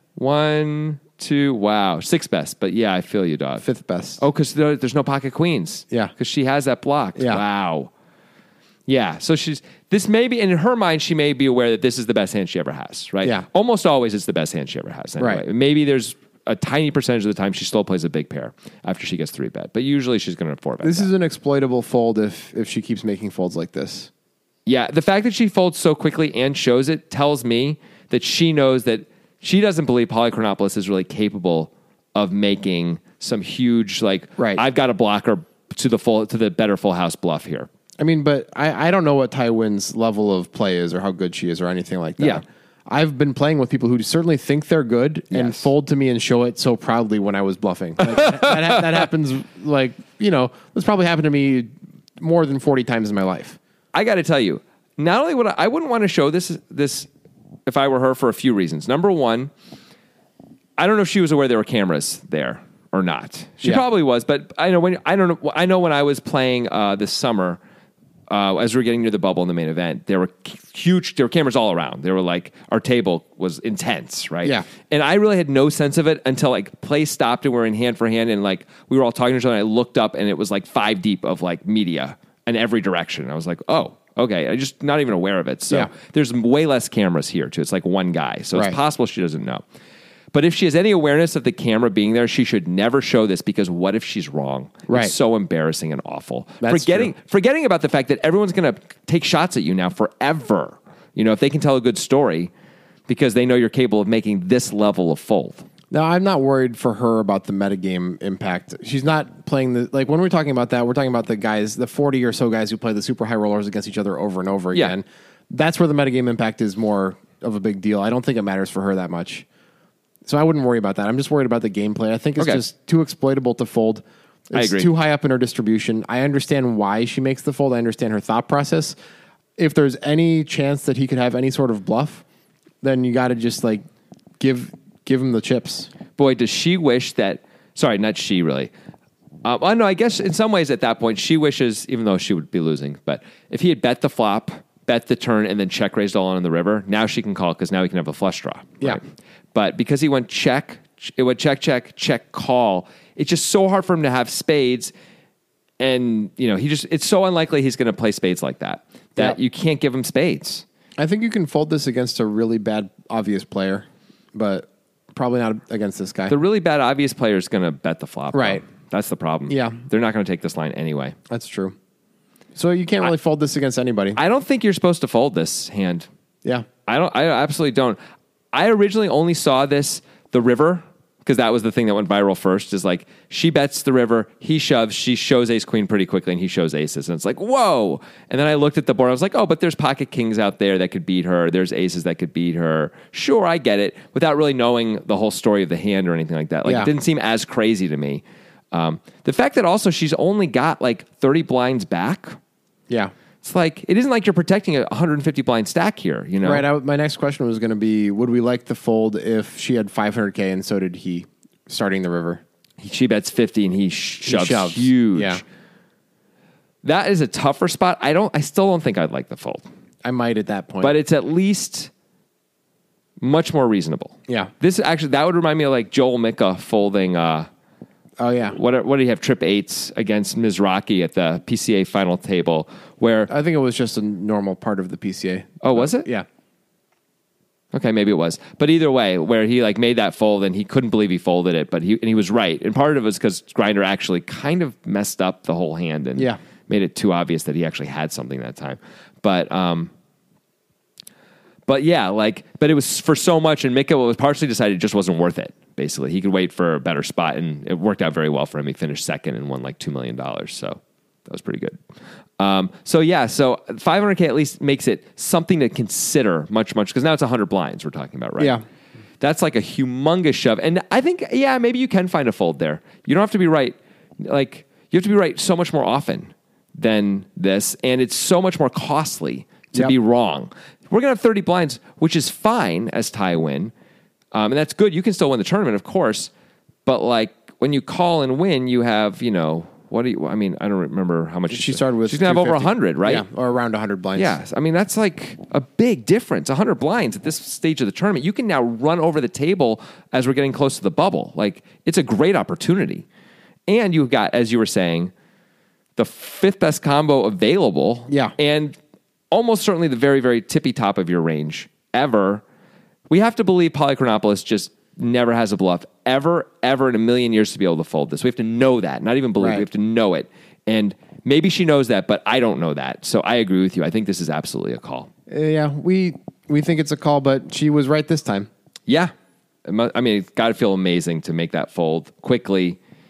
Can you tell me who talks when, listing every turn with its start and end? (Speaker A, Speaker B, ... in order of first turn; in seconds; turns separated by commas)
Speaker A: 0.2-3.6, Speaker B: 3.6-4.2, Speaker A: 4.2-7.9, Speaker B: 7.2-7.4, Speaker A: 8.9-21.1, Speaker B: 20.8-24.1, Speaker A: 24.7-37.7, Speaker B: 38.0-53.6, Speaker A: 45.3-45.7, Speaker A: 48.0-48.8, Speaker A: 53.9-57.1, Speaker A: 57.7-59.5, Speaker A: 60.8-67.6, Speaker A: 68.3-89.6, Speaker A: 90.3-102.5, Speaker B: 94.9-95.1, Speaker B: 96.6-97.1, Speaker A: 103.1-105.7, Speaker B: 105.9-119.5, Speaker B: 120.3-128.9, Speaker A: 124.5-124.9, Speaker B: 129.6-132.2, Speaker B: 132.8-133.8, Speaker B: 134.4-135.9, Speaker A: 136.2-138.7, Speaker A: 139.4-149.0, Speaker A: 149.5-154.9, Speaker A: 155.8-160.7, Speaker B: 161.0-166.4, Speaker A: 166.3-171.2, Speaker B: 168.3-168.6, Speaker B: 169.5-169.8, Speaker B: 171.3-171.8, Speaker B: 172.6-174.2, Speaker A: 174.2-176.1, Speaker A: 176.9-178.0, Speaker A: 178.5-202.4, Speaker B: 196.7-196.9, Speaker A: 203.4-206.7, Speaker B: 206.4-212.4, Speaker A: 212.8-215.4, Speaker B: 214.2-215.4, Speaker A: 216.8-219.7, Speaker B: 220.0-221.0, Speaker A: 220.8-221.9, Speaker A: 223.2-227.5, Speaker B: 228.2-228.6, Speaker A: 228.5-233.3, Speaker B: 233.3-236.3, Speaker A: 235.6-236.1, Speaker A: 237.7-249.9, Speaker A: 251.7-261.8, Speaker A: 262.4-268.6, Speaker A: 269.2-283.7, Speaker A: 284.3-286.3, Speaker A: 286.9-293.2, Speaker B: 291.5-294.4, Speaker A: 294.2-303.1, Speaker A: 303.7-305.1, Speaker A: 306.0-308.8, Speaker B: 308.1-308.4, Speaker A: 309.3-312.4, Speaker A: 313.1-325.1, Speaker B: 319.4-319.6, Speaker B: 325.3-328.5, Speaker A: 328.9-329.1, Speaker A: 329.6-332.8